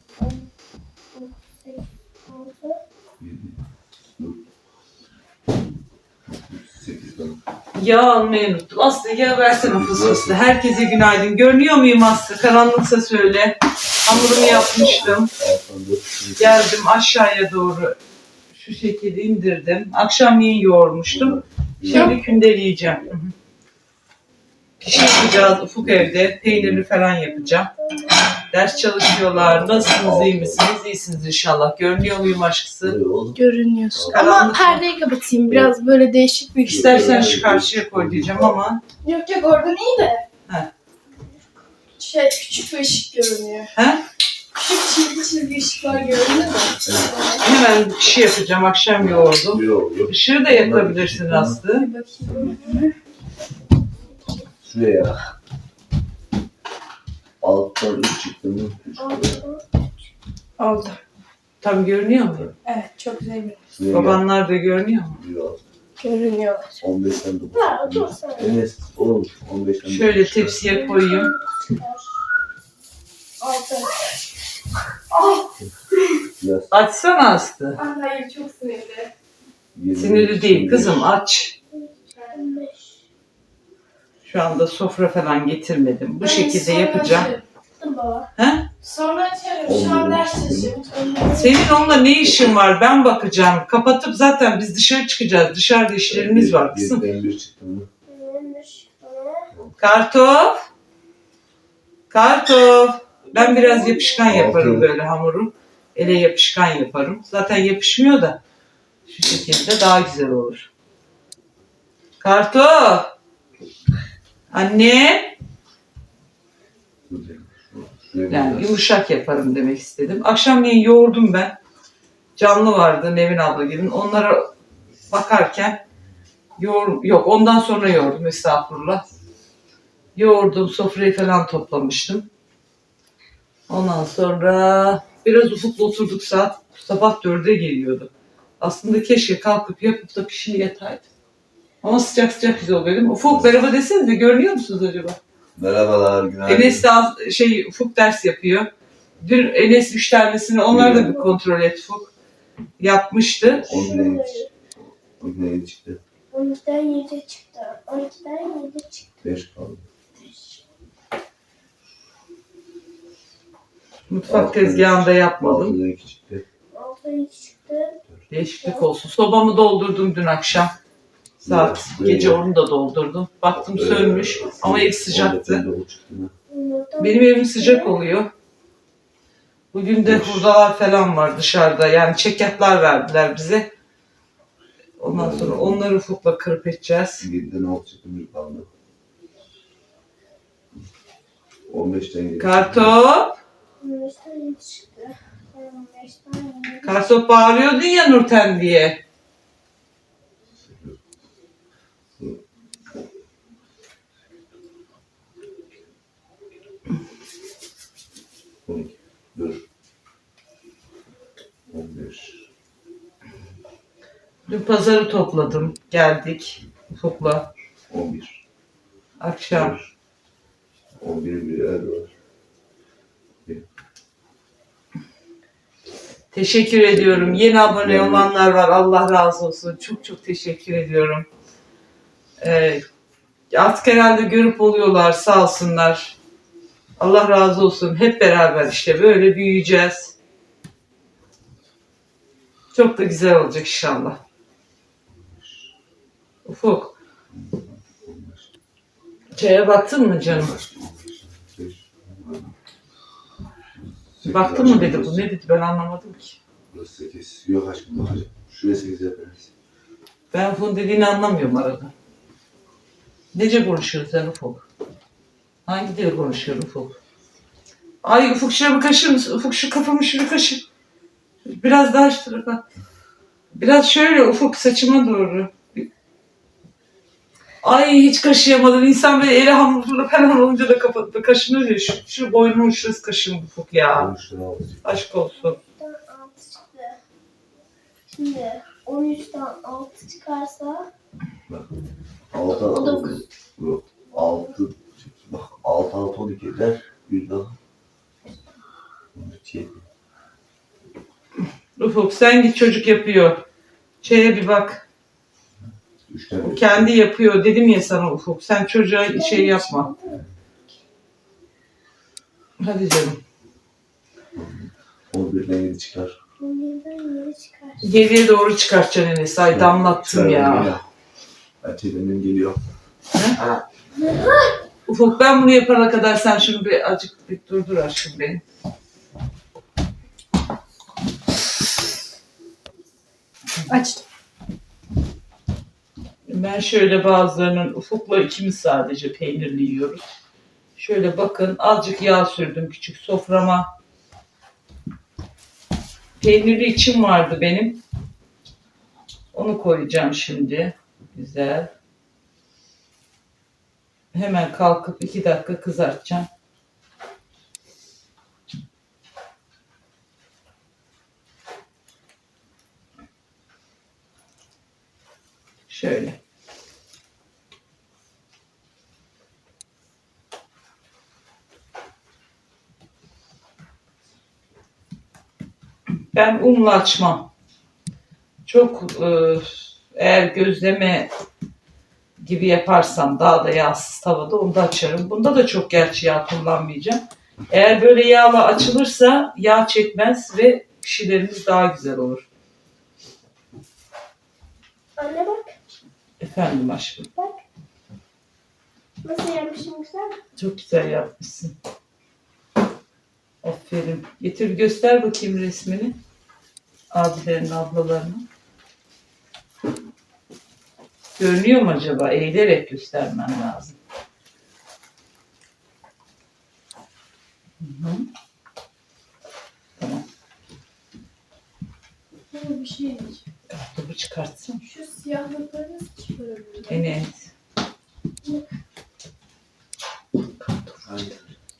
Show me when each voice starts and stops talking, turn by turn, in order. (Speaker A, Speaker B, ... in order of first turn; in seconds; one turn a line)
Speaker A: 0.2-0.5
Speaker A: 1.1-2.8
Speaker B: 3.2-3.6
Speaker B: 4.2-4.5
Speaker B: 6.2-7.4
Speaker C: 7.7-15.3
Speaker B: 9.6-10.4
Speaker B: 14.1-16.7
Speaker C: 16.4-17.9
Speaker C: 18.5-23.3
Speaker B: 21.1-22.2
Speaker C: 24.8-27.7
Speaker B: 24.9-26.9
Speaker A: 27.2-28.2
Speaker C: 28.5-33.0
Speaker B: 29.3-30.6
Speaker B: 32.8-33.4
Speaker D: 33.4-37.3
Speaker B: 33.9-34.4
Speaker C: 34.1-34.9
Speaker B: 35.5-35.7
Speaker B: 36.6-38.6
Speaker C: 36.6-38.8
Speaker D: 39.0-40.2
Speaker D: 42.0-43.7
Speaker C: 43.7-44.0
Speaker D: 44.5-47.4
Speaker B: 45.8-47.1
Speaker C: 47.4-51.9
Speaker B: 49.0-51.6
Speaker D: 51.7-52.9
Speaker A: 52.3-52.8
Speaker B: 54.6-55.3
Speaker B: 57.4-59.4
Speaker A: 59.0-59.8
Speaker D: 60.6-61.0
Speaker C: 61.6-62.5
Speaker D: 62.6-63.6
Speaker B: 63.8-64.2
Speaker C: 63.9-65.2
Speaker B: 65.2-65.6
Speaker D: 66.0-66.7
Speaker B: 66.8-70.6
Speaker A: 67.5-68.6
Speaker C: 69.8-71.3
Speaker A: 70.7-72.1
Speaker D: 73.4-73.9
Speaker D: 75.1-75.5
Speaker B: 76.4-76.7
Speaker C: 76.7-77.8
Speaker D: 77.8-79.1
Speaker B: 79.7-81.1
Speaker C: 79.9-81.5
Speaker A: 82.3-82.9
Speaker C: 84.2-87.3
Speaker D: 86.2-88.2
Speaker C: 88.3-88.7
Speaker D: 88.8-91.5
Speaker B: 89.7-90.8
Speaker C: 91.3-97.0
Speaker B: 91.8-92.5
Speaker B: 96.1-97.9
Speaker A: 98.1-99.5
Speaker C: 99.8-100.6
Speaker C: 102.1-108.4
Speaker A: 103.3-104.2
Speaker B: 104.3-104.9
Speaker C: 109.0-110.7
Speaker C: 112.2-113.1
Speaker C: 114.5-115.3
Speaker B: 117.1-118.8
Speaker C: 118.3-121.5
Speaker C: 122.4-124.5
Speaker C: 125.1-125.8
Speaker C: 126.6-129.0
Speaker C: 130.1-132.3
Speaker C: 133.7-141.1
Speaker C: 141.8-145.2
Speaker B: 145.5-146.8
Speaker C: 146.4-148.7
Speaker C: 149.2-152.1
Speaker B: 150.7-151.2
Speaker C: 152.8-153.7
Speaker B: 153.4-154.5
Speaker A: 153.6-154.5
Speaker B: 155.2-156.0
Speaker A: 156.3-159.2
Speaker B: 159.2-159.8
Speaker A: 160.2-160.6
Speaker C: 164.1-165.8
Speaker B: 164.2-166.4
Speaker A: 166.7-168.0
Speaker C: 168.3-170.7
Speaker B: 171.4-172.4
Speaker C: 171.4-175.6
Speaker B: 173.5-176.3
Speaker A: 176.5-178.0
Speaker C: 177.0-178.3
Speaker C: 179.7-183.7
Speaker B: 180.0-180.5
Speaker C: 185.0-187.2
Speaker B: 185.1-185.8
Speaker B: 187.2-188.7
Speaker B: 191.7-192.9
Speaker C: 192.4-193.4
Speaker A: 193.8-196.9
Speaker C: 196.8-199.0
Speaker B: 200.6-201.0
Speaker B: 208.7-209.6
Speaker B: 211.7-212.4
Speaker C: 214.5-217.5
Speaker B: 217.9-218.4
Speaker C: 219.2-219.8
Speaker B: 219.5-219.9
Speaker B: 221.0-222.1
Speaker C: 226.3-231.3
Speaker B: 226.9-228.3
Speaker C: 232.4-232.8
Speaker C: 233.5-236.2
Speaker C: 237.0-240.2
Speaker C: 242.7-244.2
Speaker B: 245.2-245.6
Speaker C: 246.4-246.9
Speaker B: 247.3-248.5
Speaker C: 249.3-250.5
Speaker B: 250.2-252.5
Speaker B: 253.7-255.2
Speaker C: 254.2-256.4
Speaker B: 256.7-259.5
Speaker C: 260.3-261.9
Speaker C: 263.3-264.6
Speaker C: 265.6-267.0
Speaker C: 268.0-270.6
Speaker C: 271.4-272.6
Speaker C: 273.5-275.9
Speaker C: 277.6-284.1
Speaker B: 283.9-284.8
Speaker C: 284.8-285.6
Speaker A: 285.4-287.0
Speaker A: 288.1-290.9
Speaker B: 292.3-297.6
Speaker A: 292.5-293.2
Speaker B: 299.1-299.8
Speaker C: 301.8-303.4
Speaker C: 304.0-304.9
Speaker B: 306.1-306.9
Speaker C: 306.4-309.9
Speaker A: 309.0-310.2
Speaker C: 312.6-313.2
Speaker B: 314.4-316.1
Speaker A: 316.4-317.9
Speaker C: 317.8-320.7
Speaker B: 319.5-320.8
Speaker B: 321.6-322.6
Speaker A: 323.9-324.5
Speaker C: 324.9-328.4
Speaker D: 333.7-334.0
Speaker C: 336.3-340.0
Speaker C: 340.8-343.7
Speaker C: 346.2-347.8
Speaker C: 349.3-351.7
Speaker C: 354.1-356.3
Speaker C: 365.7-366.2
Speaker C: 376.1-377.3
Speaker C: 378.4-381.1
Speaker C: 382.2-392.2
Speaker A: 395.0-395.5
Speaker C: 396.2-397.1
Speaker A: 399.0-400.2
Speaker C: 400.4-401.5
Speaker C: 403.4-406.0
Speaker C: 406.9-408.2
Speaker C: 411.2-413.8
Speaker C: 417.6-418.1
Speaker C: 419.8-420.0
Speaker D: 422.3-423.2
Speaker C: 423.5-424.6
Speaker D: 424.6-426.7
Speaker C: 426.7-427.3
Speaker C: 430.4-430.8
Speaker B: 430.8-431.4